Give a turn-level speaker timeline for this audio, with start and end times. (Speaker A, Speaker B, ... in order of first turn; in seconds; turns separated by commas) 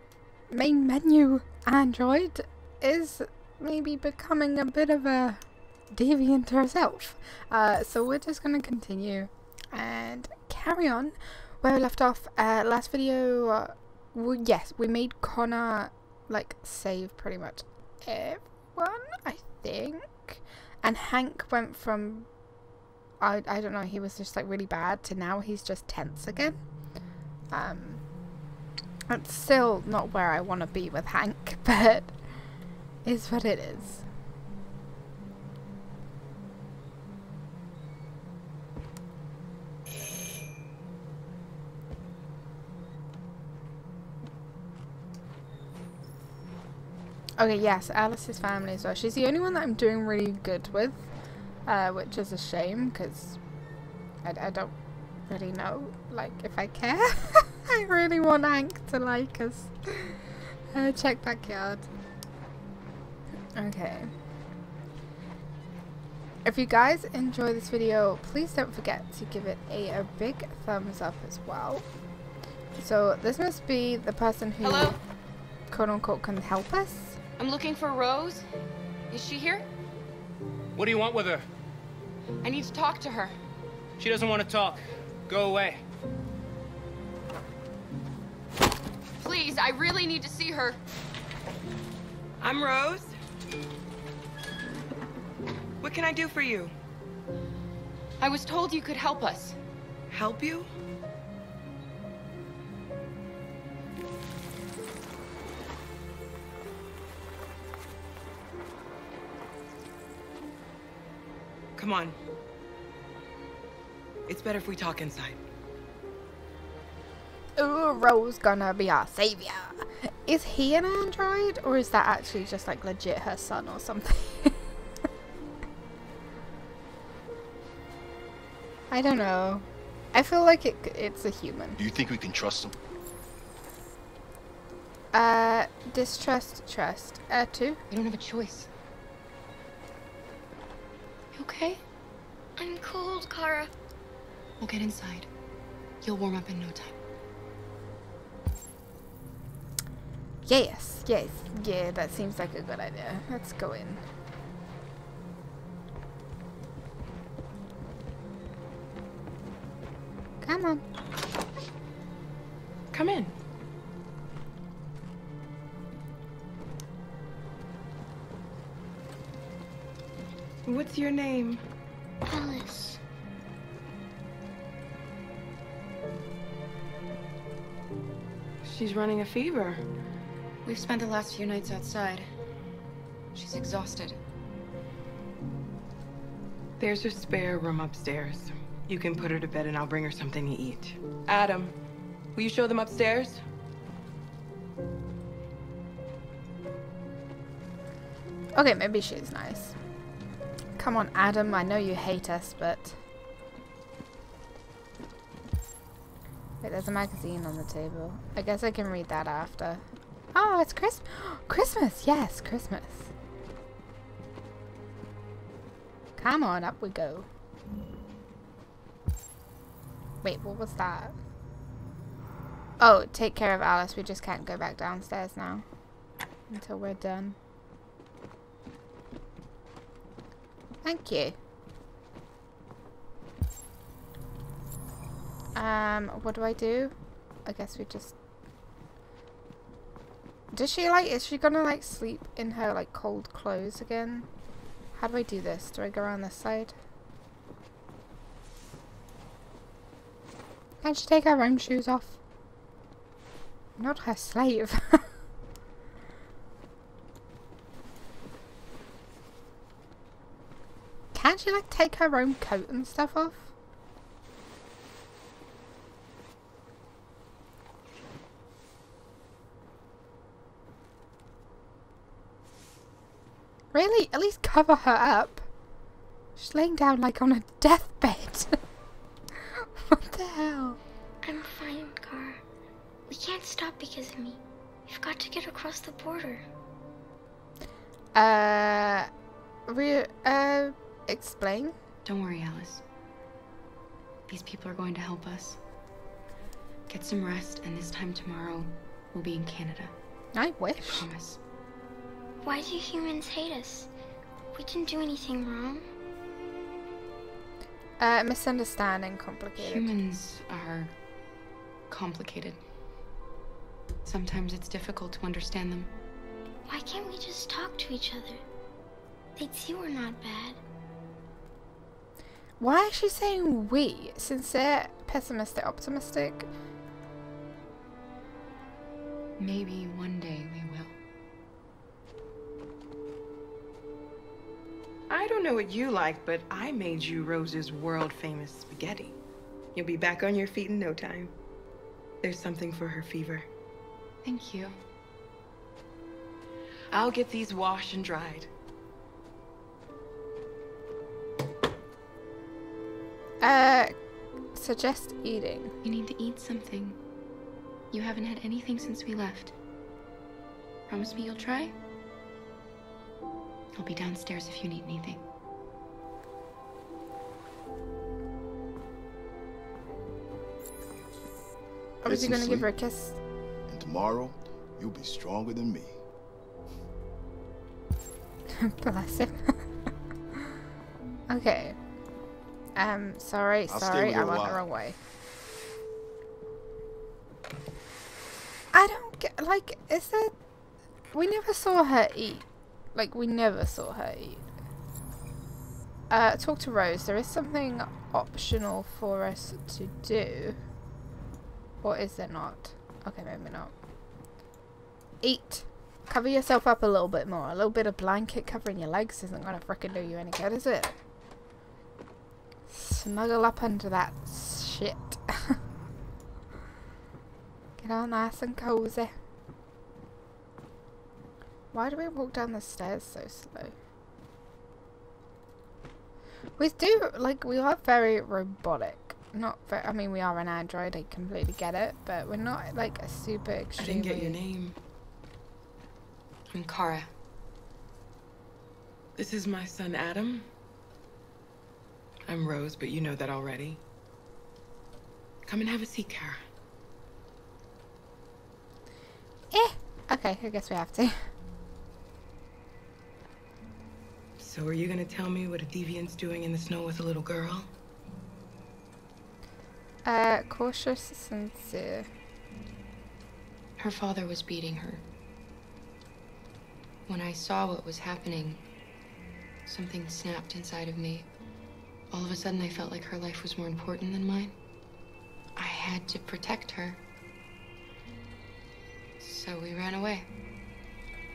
Speaker A: 0.5-5.4, Speaker A: 5.9-22.3, Speaker A: 23.2-26.6, Speaker A: 27.5-28.0, Speaker A: 29.1-32.1, Speaker A: 33.0-34.0, Speaker A: 47.4-51.1, Speaker A: 51.7-53.4, Speaker A: 54.2-54.7, Speaker A: 55.3-60.2, Speaker A: 60.7-61.9, Speaker A: 63.5-64.1, Speaker A: 66.4-71.8, Speaker A: 72.8-75.0, Speaker B: 74.6-75.0, Speaker A: 75.7-77.2, Speaker B: 77.4-78.5, Speaker B: 79.1-79.7, Speaker C: 80.8-81.4, Speaker B: 82.4-83.3, Speaker C: 84.0-85.8, Speaker B: 89.2-90.8, Speaker D: 92.4-93.1, Speaker D: 95.8-96.7, Speaker B: 98.2-99.6, Speaker D: 100.1-100.7, Speaker D: 111.8-112.2, Speaker D: 114.3-115.4, Speaker A: 117.6-124.5, Speaker A: 128.9-131.8, Speaker E: 131.8-132.8, Speaker A: 135.1-137.8, Speaker B: 137.9-138.7, Speaker B: 141.3-141.8, Speaker F: 142.6-143.7, Speaker B: 144.6-145.3, Speaker B: 146.0-146.9, Speaker A: 150.4-154.0, Speaker A: 160.4-160.8, Speaker D: 162.9-163.3, Speaker D: 170.7-171.6, Speaker F: 172.2-173.0, Speaker D: 178.6-179.8, Speaker B: 180.6-182.3, Speaker B: 183.3-184.2, Speaker D: 186.8-191.8, Speaker D: 192.3-193.4, Speaker A: 198.6-199.8, Speaker A: 200.8-202.9, Speaker A: 206.6-209.8, Speaker A: 210.3-213.1, Speaker A: 216.2-217.3, Speaker A: 220.2-221.1, Speaker A: 222.8-225.6, Speaker A: 226.5-227.4, Speaker A: 230.8-231.3, Speaker A: 235.5-236.9, Speaker A: 237.4-238.2, Speaker A: 240.5-244.3, Speaker A: 244.9-246.7, Speaker A: 250.8-252.2, Speaker A: 253.8-255.0, Speaker A: 261.1-263.5, Speaker A: 273.7-275.4, Speaker A: 276.4-278.6, Speaker A: 279.6-280.8, Speaker F: 281.2-282.4, Speaker F: 283.1-286.4, Speaker A: 288.1-289.1, Speaker A: 289.7-291.8, Speaker B: 292.0-292.8, Speaker B: 294.3-295.6, Speaker B: 296.9-299.9, Speaker A: 300.3-301.1, Speaker B: 300.8-301.4, Speaker F: 302.4-303.9, Speaker F: 304.5-305.8, Speaker A: 308.0-309.9, Speaker B: 309.6-310.9, Speaker B: 311.9-312.6, Speaker B: 314.0-315.9, Speaker F: 316.7-318.4, Speaker F: 319.4-320.6, Speaker A: 322.6-326.5, Speaker B: 329.4-330.9, Speaker D: 335.1-339.2, Speaker D: 339.7-341.3, Speaker D: 342.2-343.5, Speaker B: 344.2-344.7, Speaker D: 346.9-348.5, Speaker A: 353.4-353.9, Speaker A: 354.5-355.7, Speaker B: 355.8-357.0, Speaker B: 357.9-359.5, Speaker B: 360.9-361.7, Speaker B: 363.7-365.2, Speaker A: 372.0-373.2, Speaker E: 372.0-372.7, Speaker E: 373.7-376.0, Speaker A: 378.6-379.6, Speaker A: 381.3-381.8, Speaker A: 382.8-385.0, Speaker E: 383.7-384.6, Speaker A: 388.7-390.3, Speaker A: 391.1-394.4, Speaker A: 396.1-400.6, Speaker A: 401.8-403.7, Speaker A: 405.2-411.0, Speaker A: 412.7-415.6, Speaker A: 417.8-419.1, Speaker A: 421.7-423.7, Speaker A: 426.6-434.4, Speaker D: 433.8-434.8, Speaker B: 436.5-437.1, Speaker D: 439.1-440.5, Speaker D: 442.3-443.8, Speaker D: 445.4-446.4, Speaker A: 449.5-451.2, Speaker D: 454.4-457.7, Speaker A: 460.0-462.1, Speaker B: 463.8-465.0, Speaker B: 467.1-468.6, Speaker B: 469.6-471.3, Speaker B: 472.1-474.6, Speaker B: 475.6-477.0, Speaker B: 479.2-480.3